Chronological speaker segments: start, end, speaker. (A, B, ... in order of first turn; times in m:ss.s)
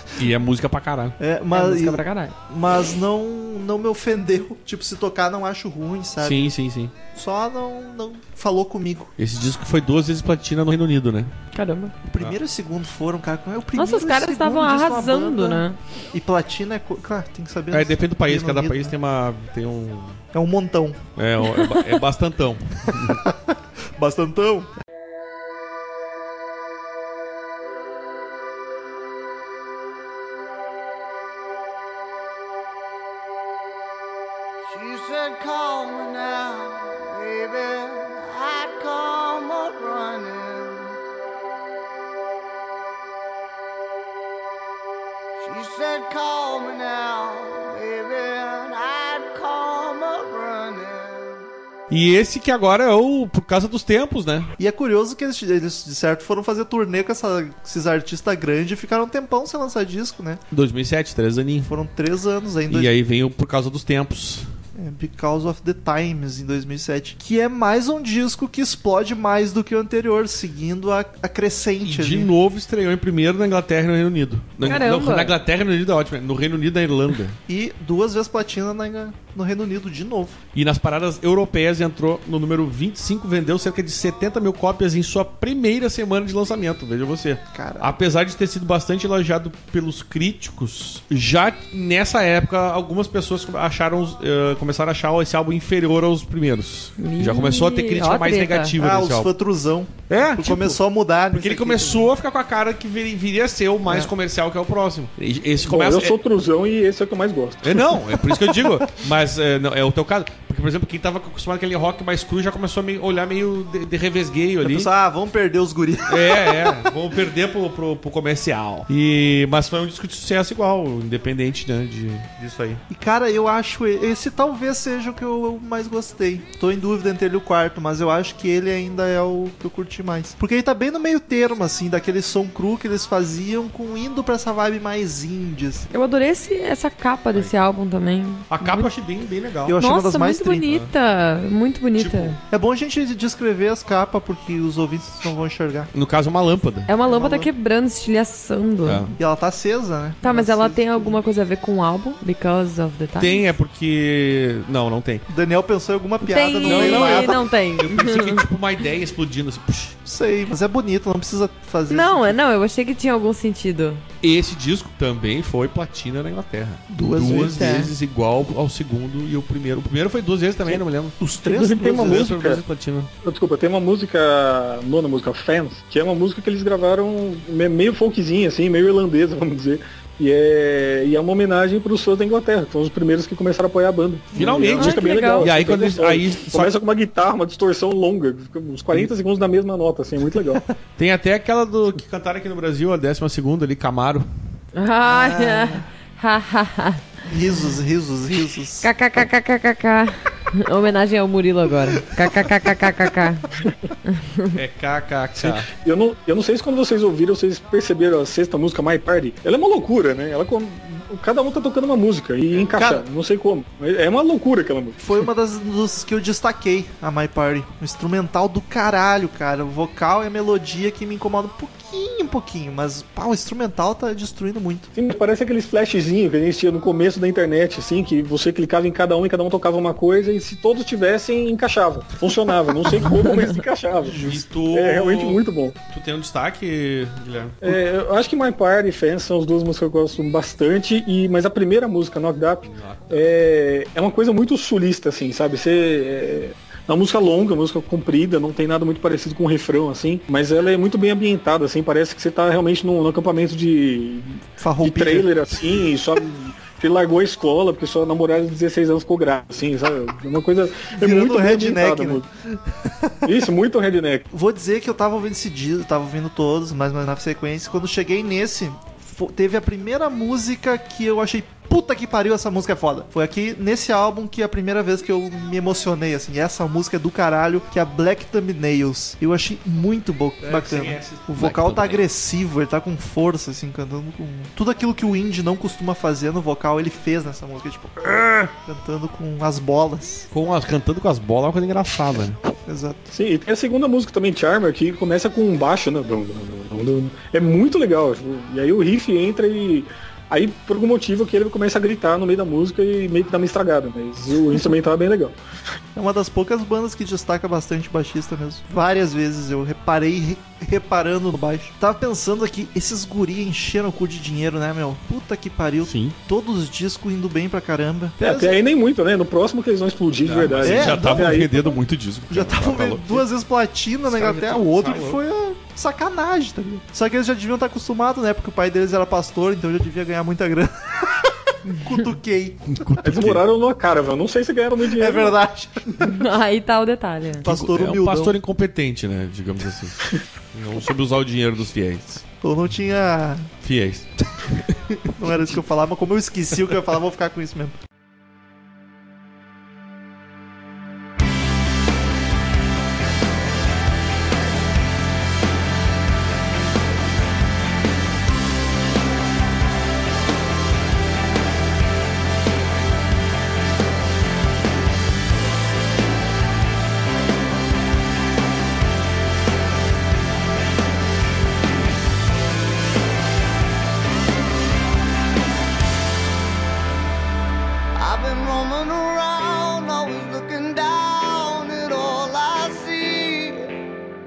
0:00.2-0:01.2 A
0:01.2-0:06.5 B
0:01.5-0:02.4 C
0:06.2-0:06.9 A
0:07.1-0:09.1 B
0:09.2-0:11.3 A
0:11.5-0:11.9 C
0:12.0-0:19.0 B
0:13.8-0:15.8 C
0:17.7-0:20.2 A
0:20.3-0:21.0 B
0:21.2-0:23.2 A
0:21.5-0:21.8 C
0:23.0-0:24.7 B
0:34.6-0:41.0 D
0:45.4-0:51.4 D
0:51.9-0:54.5 A
0:54.6-1:00.4 B
1:00.5-1:01.7 A
1:01.6-1:02.9 B
1:02.7-1:04.5 A
1:04.8-1:12.3 B
1:11.8-1:17.4 A
1:14.6-1:15.3 C
1:17.5-1:20.4 B
1:20.5-1:39.3 A
1:27.5-1:28.0 B
1:37.0-1:38.8 C
1:38.8-1:42.1 B
1:40.1-1:40.8 A
1:41.3-1:46.2 A
1:45.6-1:48.0 E
1:47.6-1:54.9 A
1:54.6-1:56.9 B
1:56.1-2:02.8 A
2:02.9-2:15.9 B
2:15.9-2:18.9 C
2:18.5-2:19.8 A
2:19.7-2:20.7 B
2:19.8-2:22.4 C
2:20.7-2:20.9 A
2:22.0-2:22.4 A
2:22.5-2:25.9 B
2:25.9-2:26.9 A
2:26.9-2:29.0 C
2:27.0-2:27.5 B
2:28.8-2:29.2 A
2:29.2-2:31.2 B
2:30.2-2:33.5 C
2:33.2-2:35.2 A
2:35.3-2:37.4 B
2:36.2-2:38.4 C
2:36.6-2:40.0 A
2:40.1-2:42.4 B
2:41.9-2:44.0 C
2:44.2-2:51.2 A
2:46.9-2:47.9 B
2:47.4-2:47.9 C
2:51.2-2:52.4 B
2:51.5-2:52.6 E
2:51.8-2:53.1 A
2:53.2-3:10.6 E
3:04.3-3:04.8 B
3:04.4-3:06.7 A
3:04.8-3:05.5 C
3:11.0-3:14.3 A
3:14.8-3:17.0 C
3:15.0-3:15.9 B
3:17.3-3:18.9 B
3:18.8-3:23.5 C
3:24.0-3:24.6 C
3:24.5-3:25.7 A
3:25.4-3:35.0 E
3:32.7-3:33.0 B
3:35.0-3:44.9 B
3:44.9-3:55.8 E
3:54.1-3:54.4 B
3:54.1-3:57.8 A
3:57.6-4:22.3 E
4:02.6-4:03.2 A
4:14.6-4:15.3 B
4:21.0-4:23.3 B
4:23.2-4:24.3 E
4:24.3-4:50.3 B
4:40.4-4:42.1 A
4:48.0-4:48.5 A
4:50.3-4:52.4 A
4:52.7-4:53.1 B
4:53.1-5:05.4 E
5:06.0-5:18.6 B
5:15.8-5:16.2 A
5:18.2-5:21.8 E
5:20.2-5:23.3 A
5:20.6-5:21.5 B
5:22.3-5:32.7 B
5:24.1-5:25.2 A
5:32.7-5:33.4 A
5:33.0-5:35.4 E
5:34.9-5:36.2 B
5:36.0-5:37.5 C
5:37.4-5:38.4 B
5:37.4-5:40.0 A
5:40.5-5:42.2 A
5:42.4-5:43.5 B
5:43.6-5:44.8 A
5:45.2-5:47.8 B
6:18.0-6:23.7 D